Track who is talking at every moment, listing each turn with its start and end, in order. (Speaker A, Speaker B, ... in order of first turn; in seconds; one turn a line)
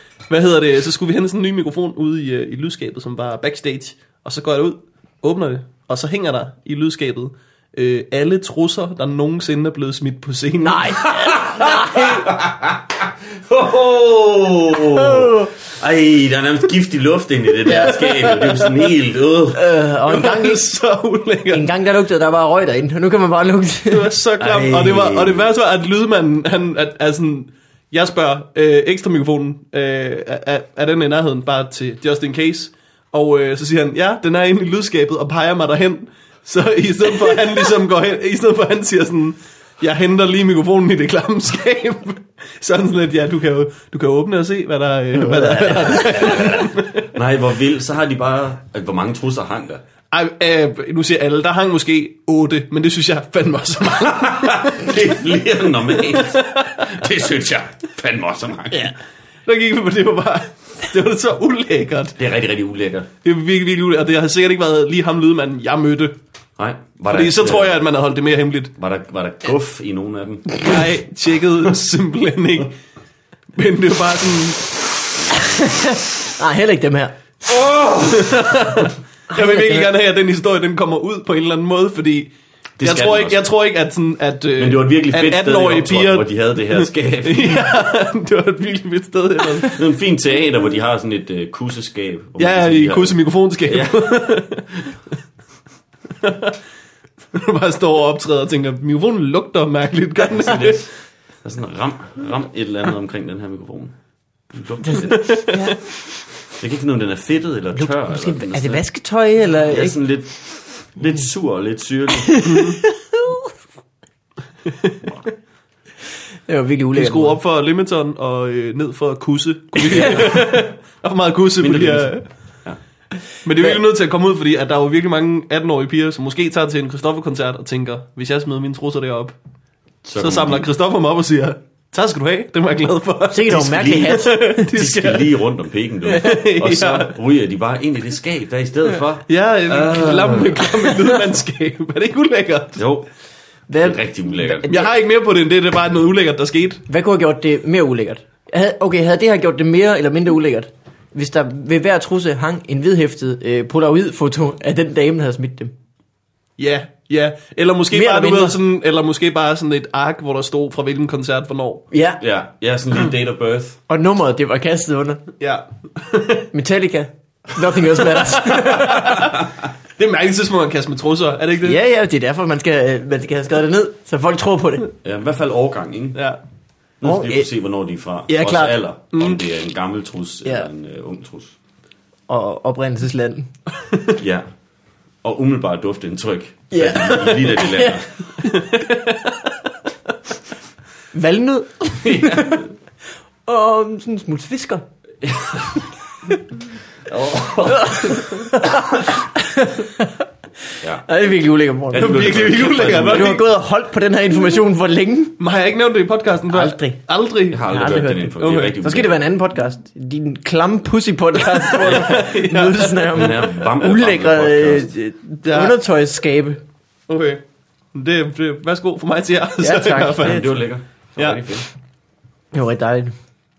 Speaker A: 0.3-11.0
Speaker B: 10.6-12.3
Speaker C: 11.2-19.6
Speaker B: 14.9-15.5
Speaker B: 17.7-18.0
Speaker A: 18.3-18.7
Speaker B: 19.5-20.6
Speaker A: 20.1-21.7
Speaker B: 21.5-25.1
Speaker A: 23.9-47.1
Speaker C: 24.5-25.4
Speaker B: 45.4-46.2
Speaker C: 45.5-49.8
Speaker A: 50.1-55.0
Speaker C: 54.0-58.9
Speaker A: 56.1-56.8
Speaker A: 59.5-62.2
Speaker C: 62.2-63.1
Speaker A: 63.2-66.2
Speaker C: 66.6-67.8
Speaker A: 67.1-68.7
Speaker C: 68.8-70.8
Speaker A: 70.6-72.7
Speaker A: 73.5-74.8
Speaker B: 75.3-77.2
Speaker C: 77.5-78.4
Speaker A: 78.0-89.8
Speaker B: 79.3-79.9
Speaker C: 82.8-83.4
Speaker C: 84.6-87.8
Speaker C: 89.7-94.4
Speaker A: 92.4-94.7
Speaker A: 96.2-96.6
Speaker A: 97.3-100.9
Speaker C: 100.3-100.9
Speaker C: 101.4-103.9
Speaker C: 104.5-105.5
Speaker B: 104.9-105.8
Speaker A: 105.1-105.6
Speaker C: 106.4-108.8
Speaker B: 107.8-110.0
Speaker C: 109.7-112.6
Speaker B: 112.2-113.5
Speaker B: 116.5-117.4
Speaker A: 116.9-122.3
Speaker B: 119.9-120.3
Speaker C: 119.9-120.2
Speaker C: 121.6-122.8
Speaker A: 123.4-129.3
Speaker C: 130.0-130.7
Speaker A: 130.2-135.3
Speaker B: 133.3-134.6
Speaker C: 133.4-140.7
Speaker A: 136.1-137.1
Speaker A: 139.3-142.8
Speaker C: 142.8-143.1
Speaker B: 143.7-144.9
Speaker C: 143.8-144.7
Speaker A: 144.7-146.8
Speaker B: 146.9-155.7
Speaker A: 156.6-161.8
Speaker B: 157.9-158.6
Speaker B: 161.9-162.2
Speaker C: 162.2-163.8
Speaker B: 163.9-165.2
Speaker A: 165.4-166.5
Speaker B: 166.5-169.3
Speaker A: 168.4-169.4
Speaker A: 170.0-171.8
Speaker B: 171.6-174.9
Speaker C: 175.0-176.2
Speaker C: 177.0-181.6
Speaker B: 177.0-177.5
Speaker B: 178.3-178.8
Speaker A: 179.1-179.4
Speaker B: 182.3-183.5
Speaker C: 184.2-184.4
Speaker C: 185.2-188.1
Speaker B: 186.7-188.7
Speaker A: 188.5-189.1
Speaker B: 191.1-192.7
Speaker C: 192.0-192.6
Speaker B: 193.4-194.8
Speaker C: 195.2-195.8
Speaker C: 197.1-198.6
Speaker B: 197.7-200.1
Speaker B: 201.0-205.4
Speaker C: 201.9-203.4
Speaker A: 201.9-203.4
Speaker A: 205.4-207.7
Speaker B: 206.5-207.0
Speaker C: 207.5-209.2
Speaker B: 207.7-216.6
Speaker A: 208.4-208.8
Speaker A: 211.5-213.2
Speaker C: 213.1-214.9
Speaker A: 215.4-215.8
Speaker A: 217.1-217.4
Speaker A: 217.9-220.5
Speaker B: 219.6-220.5
Speaker C: 220.2-221.7
Speaker A: 221.2-221.6
Speaker B: 222.5-223.1